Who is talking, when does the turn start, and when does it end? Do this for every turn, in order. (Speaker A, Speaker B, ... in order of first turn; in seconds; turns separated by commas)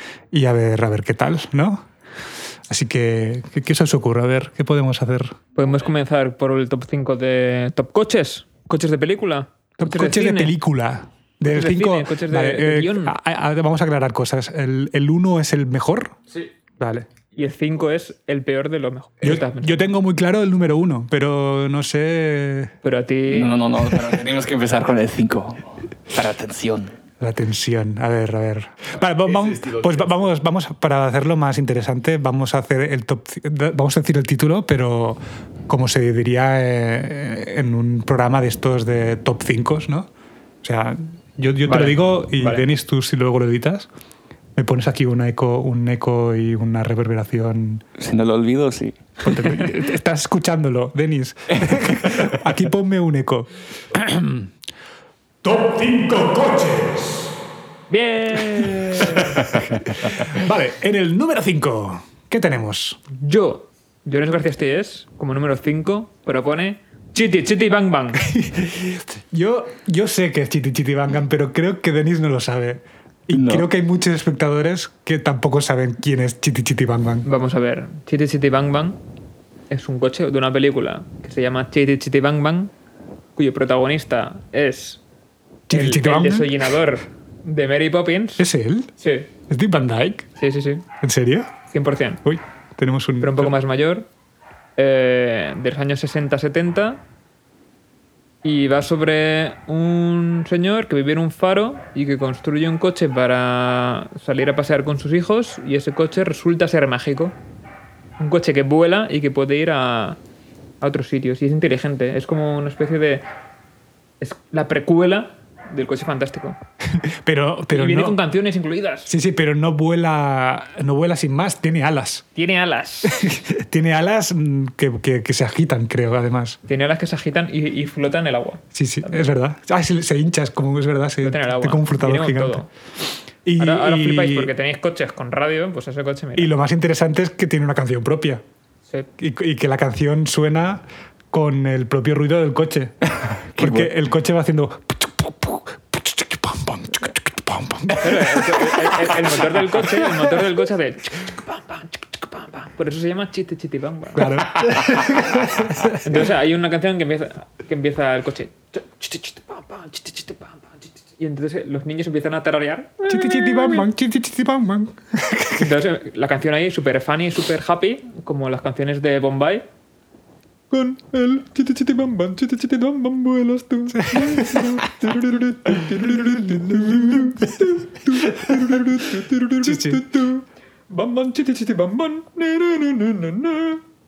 Speaker A: 0.3-1.9, Speaker A: 2.7-5.4, Speaker B: 5.5-10.6, Speaker A: 9.8-16.1, Speaker B: 11.5-13.2, Speaker A: 16.8-17.1, Speaker B: 17.3-19.8, Speaker A: 19.2-22.7, Speaker B: 22.8-23.6, Speaker C: 23.3-26.9, Speaker A: 27.2-40.1, Speaker C: 29.2-30.2, Speaker A: 40.6-43.9, Speaker B: 41.6-42.6, Speaker A: 44.5-47.8, Speaker C: 48.0-49.3, Speaker A: 49.2-54.5, Speaker C: 51.5-52.3, Speaker A: 55.4-57.3, Speaker B: 57.9-59.5, Speaker A: 58.6-63.0, Speaker B: 63.1-68.2, Speaker A: 68.2-77.2, Speaker C: 73.3-73.7, Speaker B: 77.2-79.0, Speaker B: 79.7-82.7, Speaker B: 83.3-85.0, Speaker A: 85.7-86.7, Speaker B: 85.7-88.5, Speaker A: 88.4-88.9, Speaker B: 89.0-89.3, Speaker A: 89.5-90.3, Speaker B: 90.4-90.8, Speaker A: 91.0-91.5, Speaker B: 91.7-92.2, Speaker A: 92.2-93.5, Speaker B: 93.2-94.1, Speaker B: 94.8-97.0, Speaker B: 98.4-107.3, Speaker B: 108.2-110.2, Speaker B: 110.8-113.2, Speaker B: 114.2-116.6, Speaker A: 116.9-118.2, Speaker B: 117.7-119.1, Speaker A: 119.1-122.2, Speaker B: 122.3-123.2, Speaker A: 123.0-126.6, Speaker B: 126.7-129.3, Speaker A: 128.7-132.6, Speaker B: 131.2-132.7, Speaker A: 133.4-134.5, Speaker B: 133.6-136.5, Speaker A: 136.3-138.4, Speaker A: 139.2-142.9, Speaker C: 143.5-143.9, Speaker A: 143.6-148.9, Speaker B: 148.0-154.3, Speaker A: 154.1-156.3, Speaker B: 156.0-163.9, Speaker A: 163.1-165.8, Speaker B: 165.6-169.6, Speaker B: 170.7-183.8, Speaker A: 173.9-174.8, Speaker A: 176.0-177.4, Speaker A: 179.6-180.0